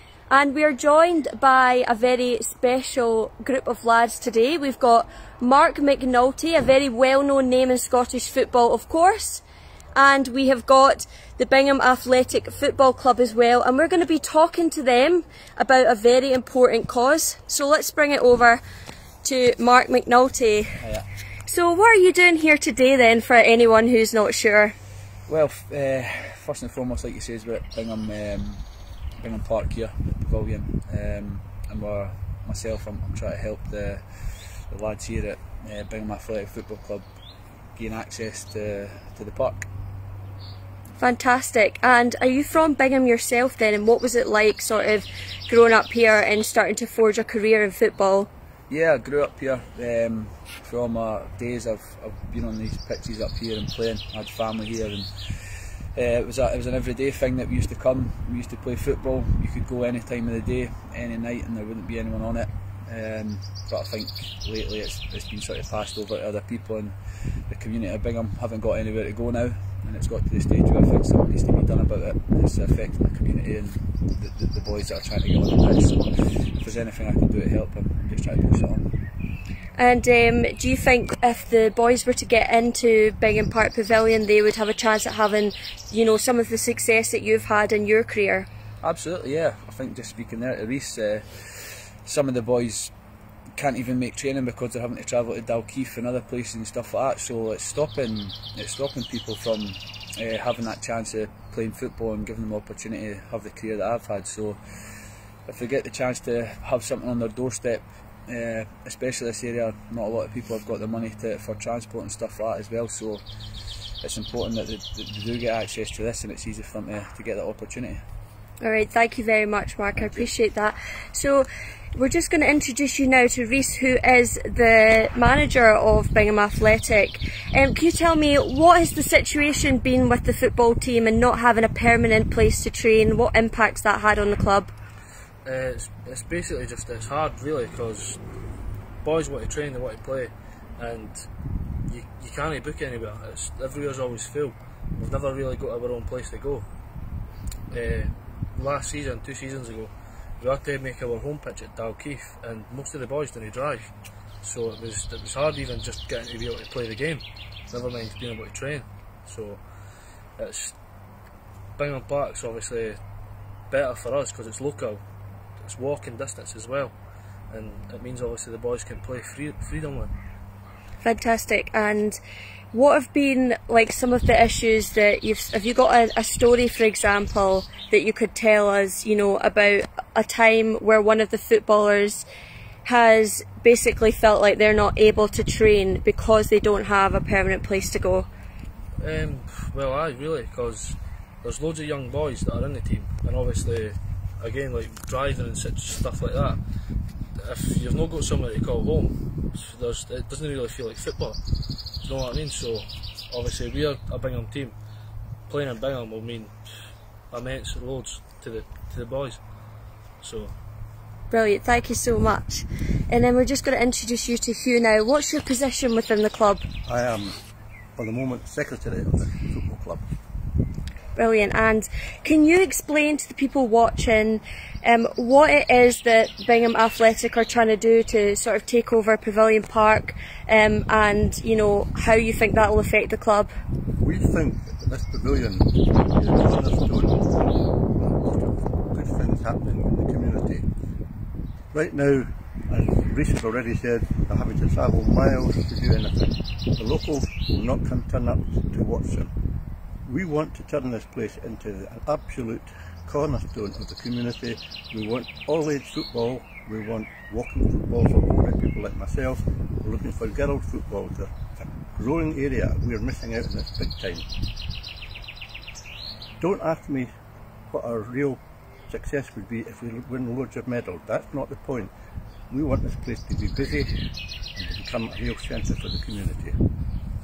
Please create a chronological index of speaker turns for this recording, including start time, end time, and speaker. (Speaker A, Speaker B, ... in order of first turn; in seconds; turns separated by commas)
Speaker A: 0.3-9.4, Speaker A: 9.9-18.6, Speaker A: 19.2-20.8, Speaker B: 20.8-21.1, Speaker A: 21.5-24.8, Speaker B: 25.3-28.6, Speaker B: 29.2-37.1, Speaker B: 37.8-39.7, Speaker A: 41.0-48.3, Speaker B: 48.7-78.9, Speaker A: 79.8-88.5, Speaker B: 88.8-92.9, Speaker B: 93.6-113.2, Speaker B: 114.0-118.0, Speaker A: 118.6-134.7, Speaker B: 120.0-120.3, Speaker C: 135.4-138.2, Speaker C: 139.0-141.3, Speaker C: 141.9-146.7, Speaker C: 147.7-159.6, Speaker C: 160.4-160.8, Speaker C: 161.8-163.0, Speaker C: 163.7-165.0, Speaker C: 165.6-166.9, Speaker C: 167.5-170.1, Speaker A: 171.0-172.2, Speaker A: 172.7-182.3, Speaker A: 182.8-188.3, Speaker C: 189.0-196.6, Speaker C: 197.4-201.4, Speaker C: 202.0-204.8, Speaker C: 205.5-206.5, Speaker C: 207.3-209.4, Speaker C: 210.2-210.6, Speaker A: 211.3-216.7, Speaker D: 216.9-217.4, Speaker D: 218.0-220.1, Speaker A: 221.2-233.5, Speaker D: 234.0-240.7, Speaker D: 241.7-249.3, Speaker D: 250.1-264.3, Speaker D: 266.4-267.1, Speaker D: 267.7-271.9, Speaker D: 272.5-273.9, Speaker D: 274.6-276.6